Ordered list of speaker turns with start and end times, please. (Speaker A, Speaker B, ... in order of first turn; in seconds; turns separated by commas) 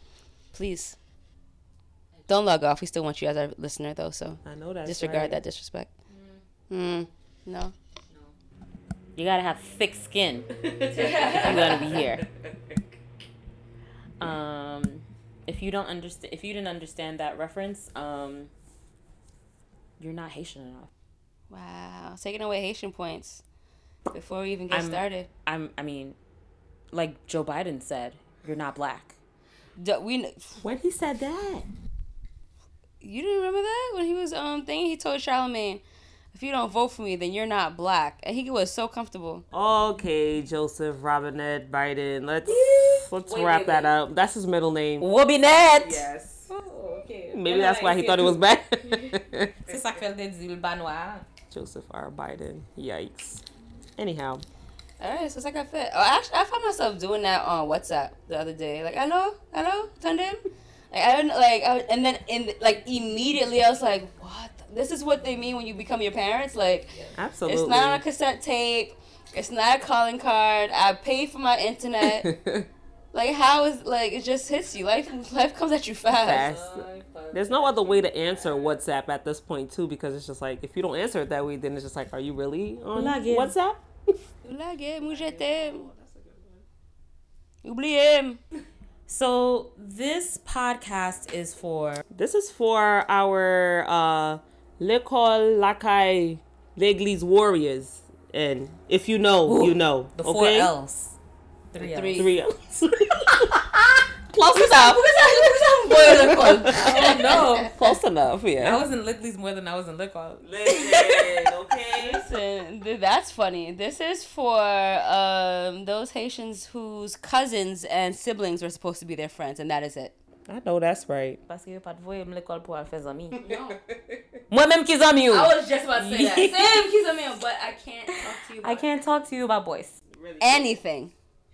Speaker A: 0.5-1.0, Speaker A: 2.3-5.9, Speaker B: 4.5-5.4, Speaker C: 6.1-6.4, Speaker A: 6.7-7.7, Speaker C: 9.2-12.2, Speaker B: 10.7-12.1, Speaker A: 10.9-11.9, Speaker C: 14.2-18.5, Speaker C: 20.0-20.9, Speaker A: 21.5-23.4, Speaker A: 24.1-25.3, Speaker C: 24.7-26.2, Speaker C: 26.9-29.2, Speaker A: 29.8-30.6, Speaker B: 30.6-31.7, Speaker A: 33.0-35.8, Speaker A: 36.3-39.4, Speaker B: 39.5-46.5, Speaker C: 42.4-43.9, Speaker C: 45.0-51.3, Speaker B: 47.3-49.9, Speaker B: 51.5-53.4, Speaker B: 54.0-54.4, Speaker A: 55.0-60.4, Speaker A: 60.9-72.3, Speaker B: 67.2-68.0, Speaker B: 72.0-72.7, Speaker A: 73.1-76.5, Speaker B: 76.1-84.1, Speaker C: 76.2-78.7, Speaker C: 83.0-83.5, Speaker A: 84.4-85.9, Speaker C: 85.0-86.6, Speaker A: 87.6-88.4, Speaker C: 89.1-92.0, Speaker B: 92.1-100.7, Speaker C: 99.5-101.2, Speaker C: 101.7-102.3, Speaker A: 101.8-102.3, Speaker B: 102.1-103.6, Speaker B: 104.3-108.8, Speaker A: 104.5-107.7, Speaker C: 106.7-107.8, Speaker C: 108.6-110.5, Speaker B: 110.4-112.3, Speaker A: 110.7-111.2, Speaker A: 112.0-120.2, Speaker B: 120.5-121.4, Speaker C: 121.5-123.4, Speaker A: 123.4-123.8, Speaker B: 123.5-124.1, Speaker C: 124.5-126.8, Speaker A: 125.3-128.8, Speaker C: 128.2-130.0, Speaker B: 130.1-130.8, Speaker A: 130.4-131.1